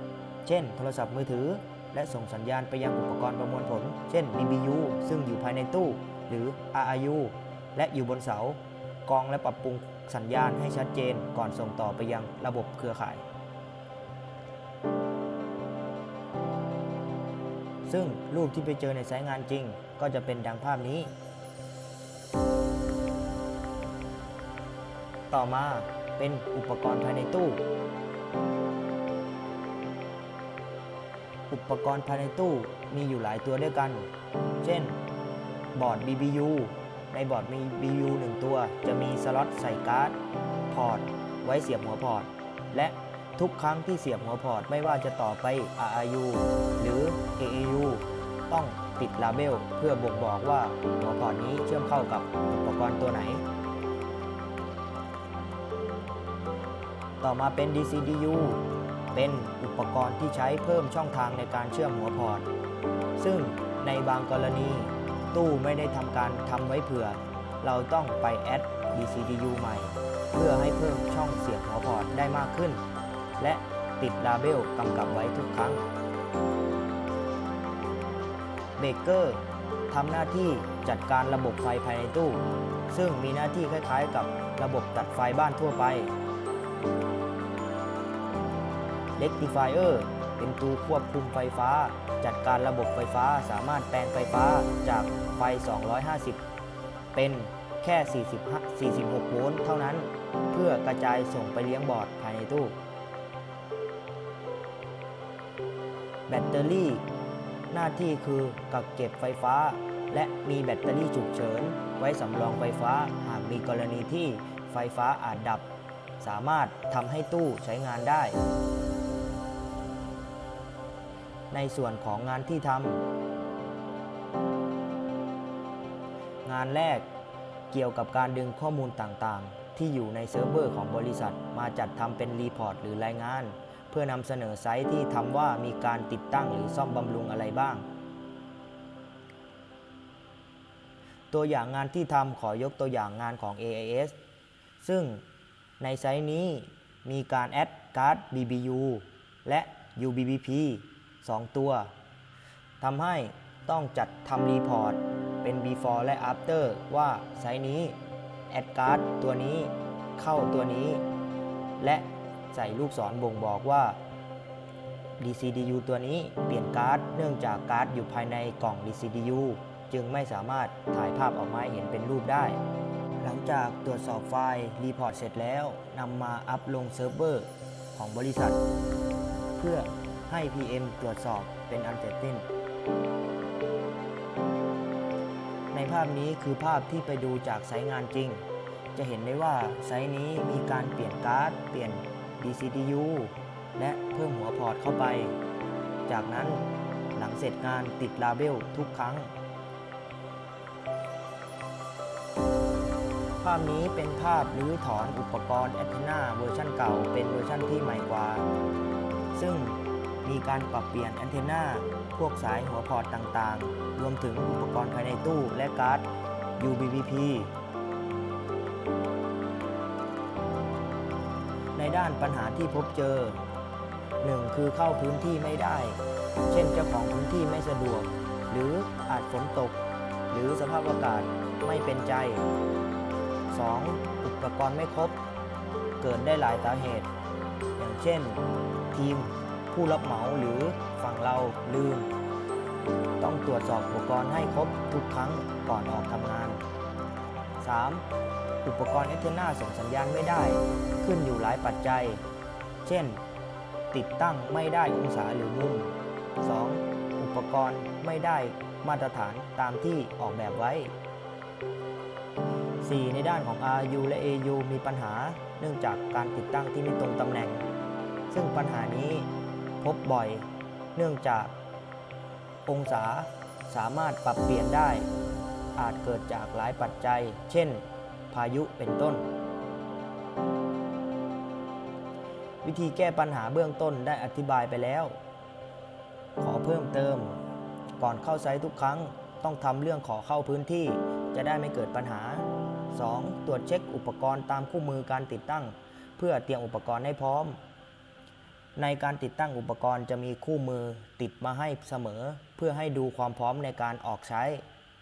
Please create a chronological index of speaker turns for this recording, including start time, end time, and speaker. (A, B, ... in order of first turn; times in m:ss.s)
0:00.4-0:13.2 A
0:17.8-0:21.1 A
0:25.3-0:27.6 A
0:31.5-0:34.0 A
0:34.6-0:35.0 A
0:35.7-0:40.2 A
0:40.7-0:53.4 A
0:57.2-1:02.4 A
1:03.2-1:12.8 A
1:13.4-1:15.8 A
1:18.8-1:26.1 A
1:29.2-1:36.4 A
1:37.1-1:42.8 A
1:46.3-1:47.0 A
1:47.7-1:55.6 A
1:56.2-1:58.4 A
2:01.5-2:03.0 A
2:06.4-2:07.0 A
2:07.7-2:17.8 A
2:21.3-2:24.1 A
2:24.8-2:25.2 A
2:25.8-2:31.9 A
2:32.8-2:38.0 A
2:38.5-2:41.0 A
2:41.8-2:44.0 A
2:45.2-2:52.6 A
2:53.2-2:58.6 A
2:59.6-3:02.4 A
3:05.7-3:15.3 A
3:16.1-3:16.6 A
3:17.1-3:19.3 A
3:23.4-3:28.4 A
3:29.3-3:36.0 A
3:36.6-3:37.5 A
3:41.7-3:43.4 A
3:44.2-3:52.4 A
3:53.5-3:55.2 A
3:56.0-3:57.1 A
3:57.8-3:58.4 A
3:58.9-4:02.1 A
4:03.2-4:06.6 A
4:07.6-4:08.0 A
4:08.6-4:12.2 A
4:12.8-4:13.2 A
4:13.9-4:20.9 A
4:22.8-4:27.6 A
4:28.3-4:31.5 A
4:32.6-4:35.1 A
4:35.7-4:39.2 A
4:42.6-4:45.2 A
4:46.4-4:47.4 A
4:48.0-4:57.6 A
4:58.8-5:04.6 A